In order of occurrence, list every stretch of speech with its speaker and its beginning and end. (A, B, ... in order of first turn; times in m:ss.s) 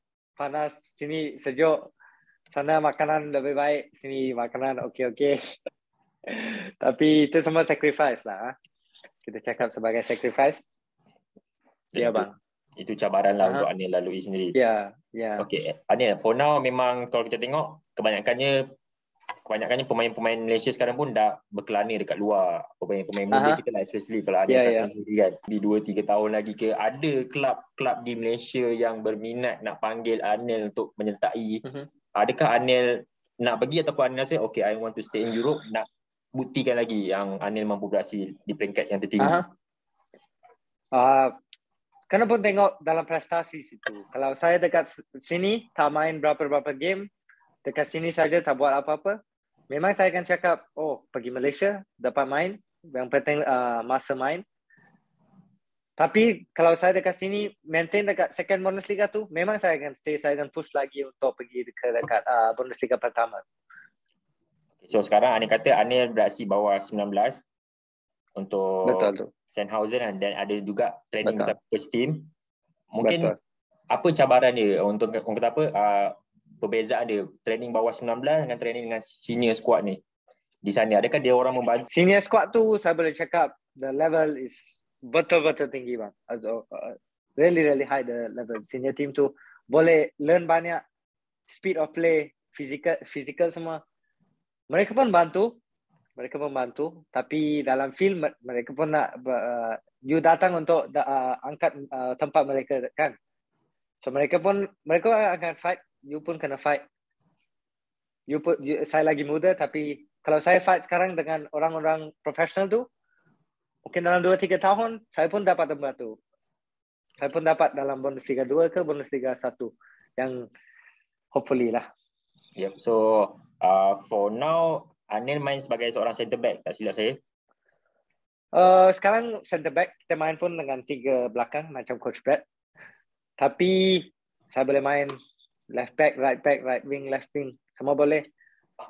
0:00.4-0:01.9 A
0:02.5-0:05.7 A
0:06.3-0:08.5 A
0:09.2-0:10.6 A
0:12.0-0:14.5 B
0:12.0-0:12.3 A
0:14.5-0:15.5 A
0:15.4-0:18.6 B
0:19.5-0:31.6 B
0:23.3-0:23.6 A
0:24.5-0:24.9 A
0:32.1-0:39.4 B
0:39.2-0:39.5 A
0:40.9-0:41.3 A
0:42.1-0:47.1 A
0:47.6-0:49.2 A
0:49.7-0:54.4 A
0:56.0-1:03.4 A
1:04.8-1:07.4 B
1:08.4-1:12.3 B
1:08.8-1:09.3 A
1:11.2-1:11.5 A
1:12.9-1:13.3 B
1:13.0-1:13.4 A
1:13.9-1:20.0 B
1:20.6-1:21.9 B
1:21.9-1:30.8 A
1:31.5-1:33.8 A
1:34.7-1:35.6 A
1:36.2-1:43.1 A
1:44.0-1:46.8 A
1:48.3-1:52.9 A
1:53.9-1:56.2 A
1:57.2-2:00.5 A
2:01.3-2:01.9 A
2:02.6-2:07.2 B
2:08.5-2:12.4 A
2:13.4-2:15.1 A
2:15.7-2:18.2 A